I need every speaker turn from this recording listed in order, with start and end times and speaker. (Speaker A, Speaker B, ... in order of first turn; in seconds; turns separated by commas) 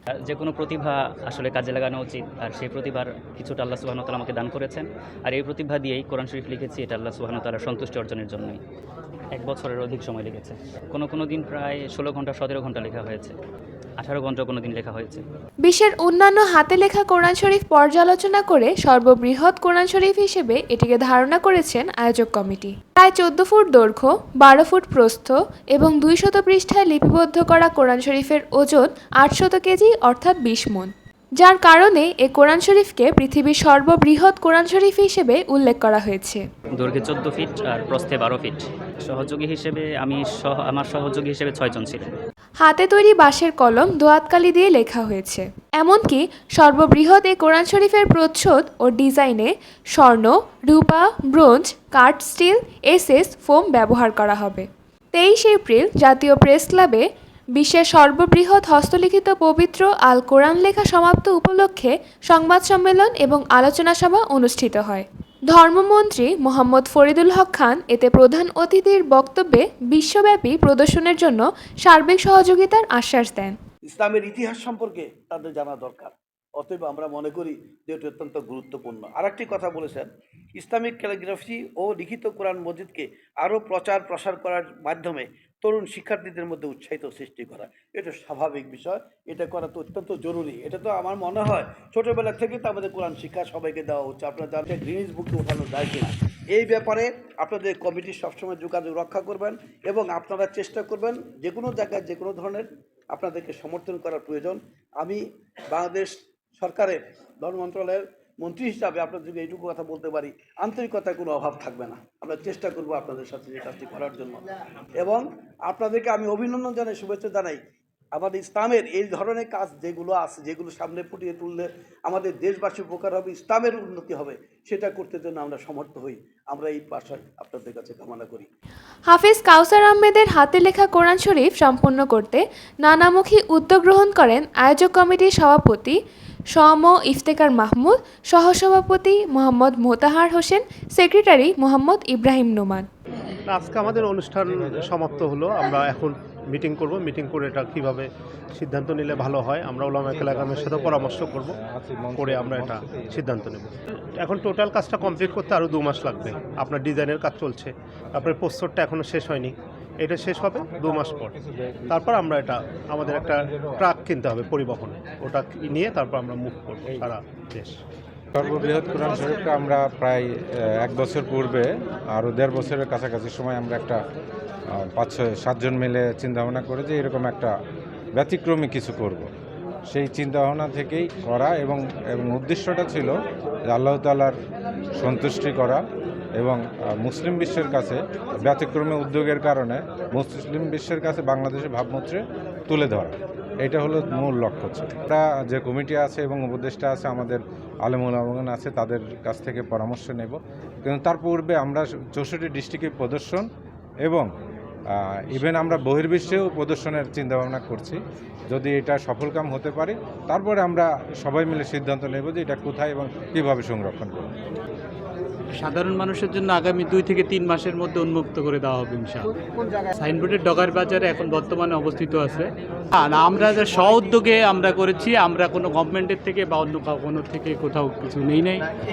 Speaker A: 0.2-8.6, Speaker A: 9.3-13.3, Speaker A: 14.0-15.2, Speaker B: 15.6-36.4, Speaker A: 36.8-42.1, Speaker B: 42.6-57.0, Speaker B: 57.5-73.5, Speaker C: 73.8-114.4, Speaker C: 115.0-117.6, Speaker C: 118.1-128.5, Speaker B: 129.1-136.0, Speaker B: 136.5-142.9, Speaker D: 143.5-151.6, Speaker E: 150.1-153.0, Speaker D: 152.2-167.8, Speaker E: 168.3-174.0, Speaker E: 174.8-177.5, Speaker E: 178.2-179.3, Speaker E: 179.9-183.1, Speaker E: 183.7-184.3, Speaker E: 185.0-185.8, Speaker E: 186.4-203.4, Speaker E: 204.9-208.0, Speaker E: 208.5-214.3, Speaker F: 215.6-219.3, Speaker F: 219.9-228.7